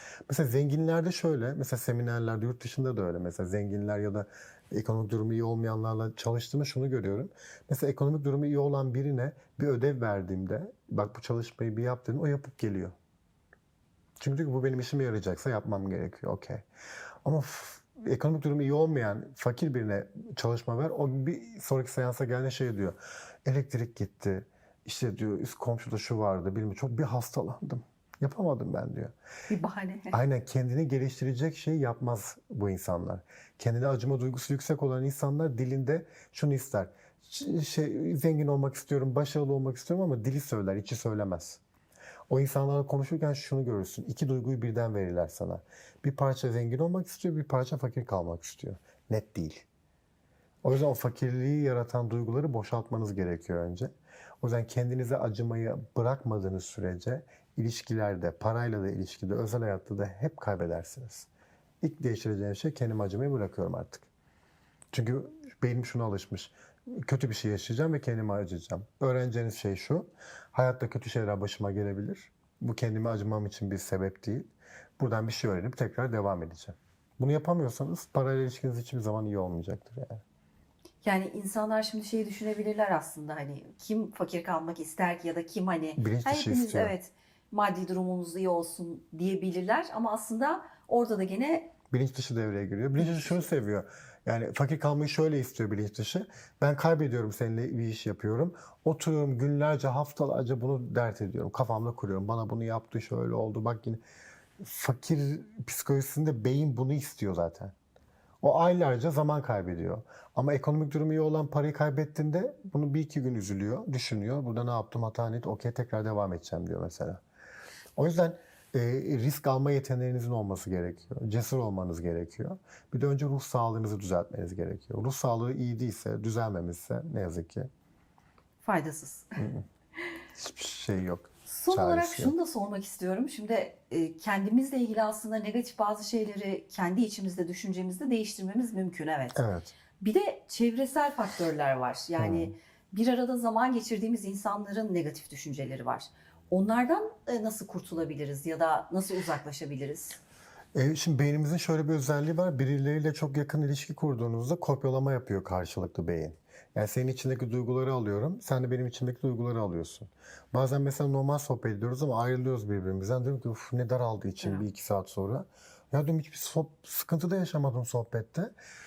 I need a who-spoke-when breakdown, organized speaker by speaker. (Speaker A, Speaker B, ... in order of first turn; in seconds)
Speaker A: 0.3-12.9, 14.2-16.6, 17.2-29.1, 30.1-41.6, 42.3-49.6, 50.6-61.3, 61.8-64.1, 64.9-80.2, 86.0-86.9, 91.9-104.0, 104.6-107.7, 108.4-117.2, 118.0-127.7, 129.4-129.7, 130.4-132.3, 139.3-139.8, 142.2-142.5, 150.8-168.5
Speaker B: 29.5-30.2, 81.0-91.7, 93.0-93.5, 128.6-129.4, 131.5-139.4, 140.0-150.2